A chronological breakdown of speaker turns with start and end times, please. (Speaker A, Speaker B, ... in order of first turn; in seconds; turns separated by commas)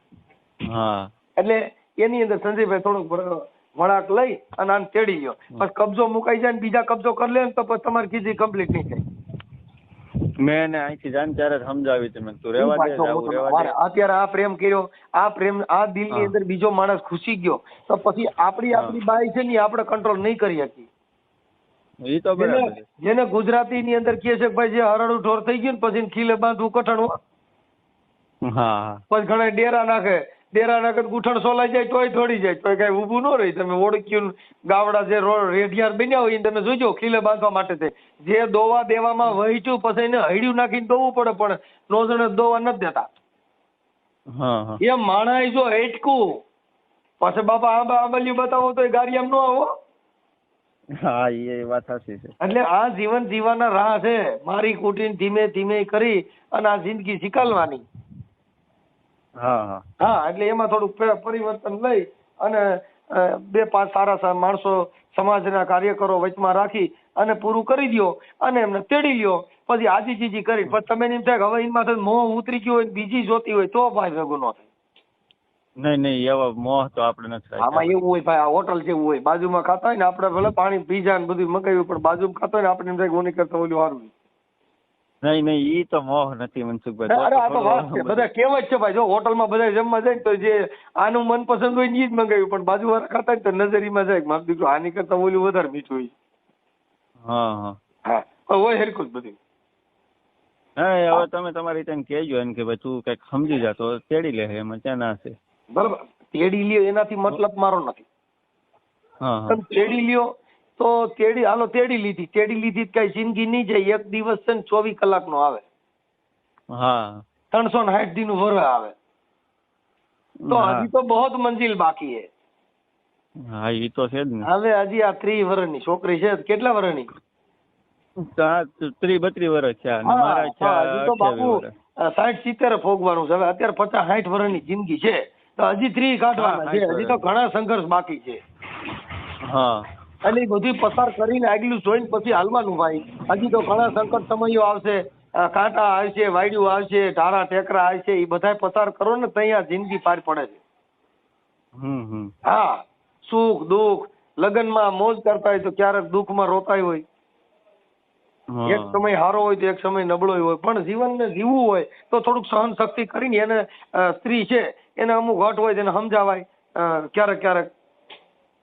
Speaker A: 0.7-1.1, Speaker B: 1.4-9.0, Speaker A: 10.4-13.7, Speaker B: 12.6-20.9, Speaker A: 22.1-22.9, Speaker B: 22.4-27.1, Speaker A: 28.4-29.0, Speaker B: 29.1-43.0, Speaker A: 44.4-44.8, Speaker B: 44.8-46.4, Speaker B: 47.2-49.7, Speaker A: 51.0-52.3, Speaker B: 52.4-57.8, Speaker A: 59.4-59.8, Speaker B: 60.0-74.7, Speaker A: 75.8-78.0, Speaker B: 77.6-84.1, Speaker A: 85.2-88.3, Speaker B: 87.1-96.1, Speaker A: 97.3-97.8, Speaker B: 98.0-99.4, Speaker A: 100.8-105.4, Speaker B: 105.7-108.1, Speaker A: 109.2-109.6, Speaker B: 109.5-115.6, Speaker A: 116.7-117.2, Speaker B: 117.5-118.9, Speaker A: 120.4-120.9, Speaker B: 120.5-122.3, Speaker A: 123.5-124.5, Speaker B: 124.5-127.1, Speaker A: 128.2-131.7, Speaker B: 130.1-138.4, Speaker A: 136.4-137.2, Speaker A: 139.5-139.9, Speaker B: 140.2-150.6, Speaker A: 151.8-152.3, Speaker B: 152.5-157.0, Speaker A: 158.5-159.0, Speaker B: 158.7-167.7